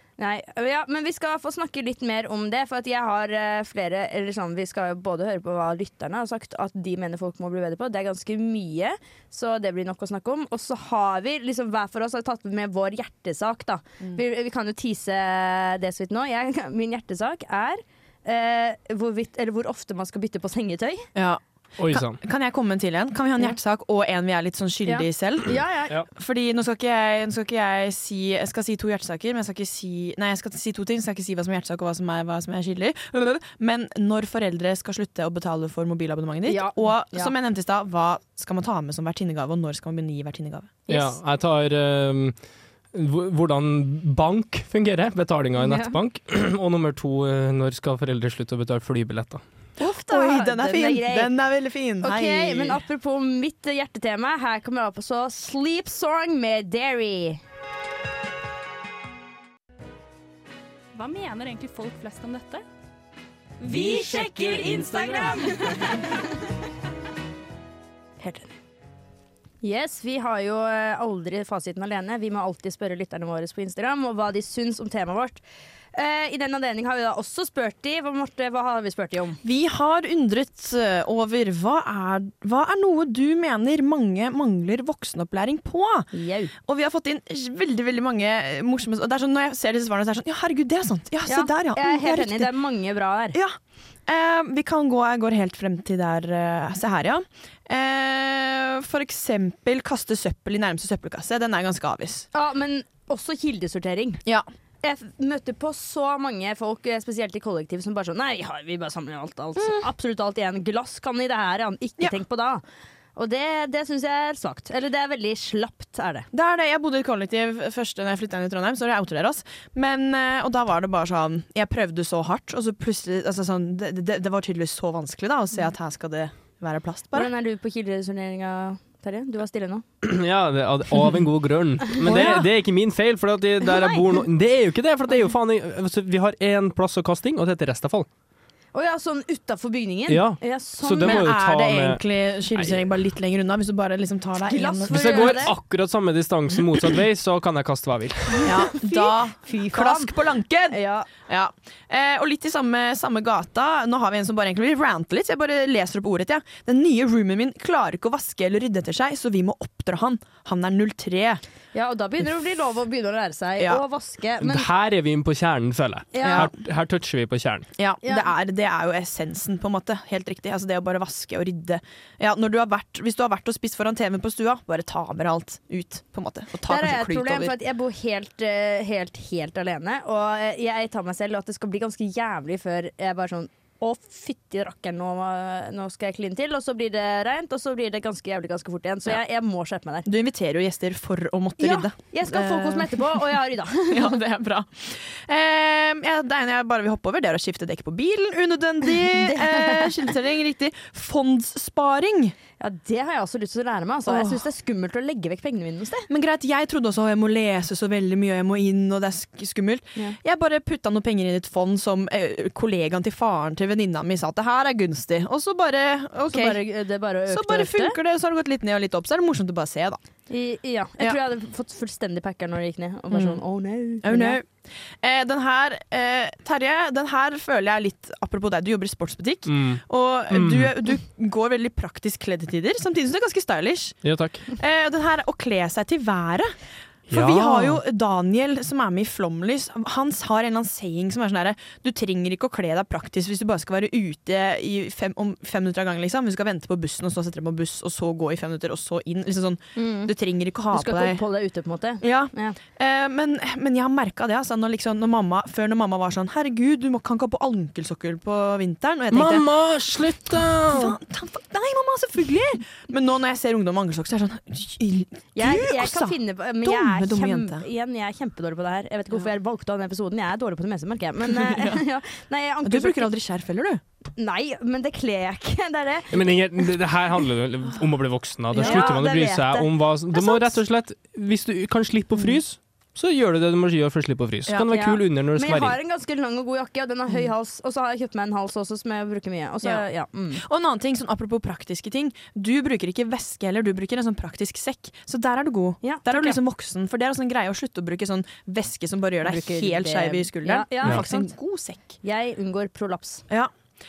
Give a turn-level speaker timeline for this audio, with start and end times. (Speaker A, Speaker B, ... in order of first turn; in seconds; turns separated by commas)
Speaker A: 0.2-21.1, Speaker B: 21.1-25.6, Speaker C: 21.8-22.2, Speaker A: 24.9-25.9, Speaker B: 26.1-40.8, Speaker A: 36.5-37.3, Speaker A: 40.9-41.2, Speaker C: 40.9-42.4, Speaker C: 42.9-49.4, Speaker A: 45.6-46.0, Speaker B: 49.8-52.8, Speaker A: 49.8-51.3, Speaker A: 52.0-57.4, Speaker D: 60.9-62.6, Speaker A: 63.6-66.2, Speaker D: 64.2-65.3, Speaker A: 68.2-68.5, Speaker A: 69.6-75.4, Speaker A: 75.9-79.4, Speaker B: 79.4-86.1, Speaker A: 86.1-86.5, Speaker B: 86.7-92.5, Speaker A: 91.3-93.4, Speaker B: 93.3-102.3, Speaker A: 102.3-104.2, Speaker A: 104.8-112.6, Speaker B: 109.6-109.9, Speaker A: 113.2-116.3, Speaker B: 116.3-127.3, Speaker A: 127.1-129.8, Speaker C: 130.0-138.1, Speaker A: 132.0-132.4, Speaker B: 132.0-132.4, Speaker A: 133.7-134.0, Speaker A: 138.7-141.2, Speaker C: 140.1-142.0, Speaker B: 141.0-145.4, Speaker C: 142.6-142.9, Speaker A: 144.5-145.5, Speaker C: 144.9-148.5, Speaker B: 148.4-161.4, Speaker A: 148.8-150.1, Speaker A: 150.7-151.1, Speaker A: 161.7-164.7, Speaker C: 164.4-167.7, Speaker A: 166.1-166.5, Speaker B: 166.2-166.5, Speaker B: 167.8-177.6, Speaker A: 168.0-168.3, Speaker A: 176.7-190.1, Speaker B: 190.1-193.3, Speaker A: 191.6-194.2, Speaker B: 193.9-202.3, Speaker A: 199.2-199.9, Speaker A: 202.6-206.1, Speaker B: 204.1-204.4, Speaker B: 206.1-216.6, Speaker A: 216.3-218.0, Speaker B: 217.3-220.0, Speaker A: 220.3-224.4, Speaker B: 223.1-223.4, Speaker B: 224.0-236.6, Speaker C: 229.5-230.7, Speaker C: 234.0-234.4, Speaker C: 237.1-237.8, Speaker B: 237.1-251.2, Speaker A: 249.8-250.1, Speaker A: 250.7-252.6, Speaker B: 252.0-259.5, Speaker C: 259.1-261.0, Speaker B: 260.7-267.6, Speaker A: 265.4-273.1, Speaker B: 271.3-271.8, Speaker B: 272.6-273.8, Speaker A: 274.2-276.4, Speaker C: 276.1-285.8, Speaker A: 278.6-280.6, Speaker B: 278.6-279.0, Speaker A: 284.7-290.4, Speaker B: 290.4-302.0, Speaker A: 295.8-296.4, Speaker A: 299.2-301.3, Speaker A: 302.0-303.2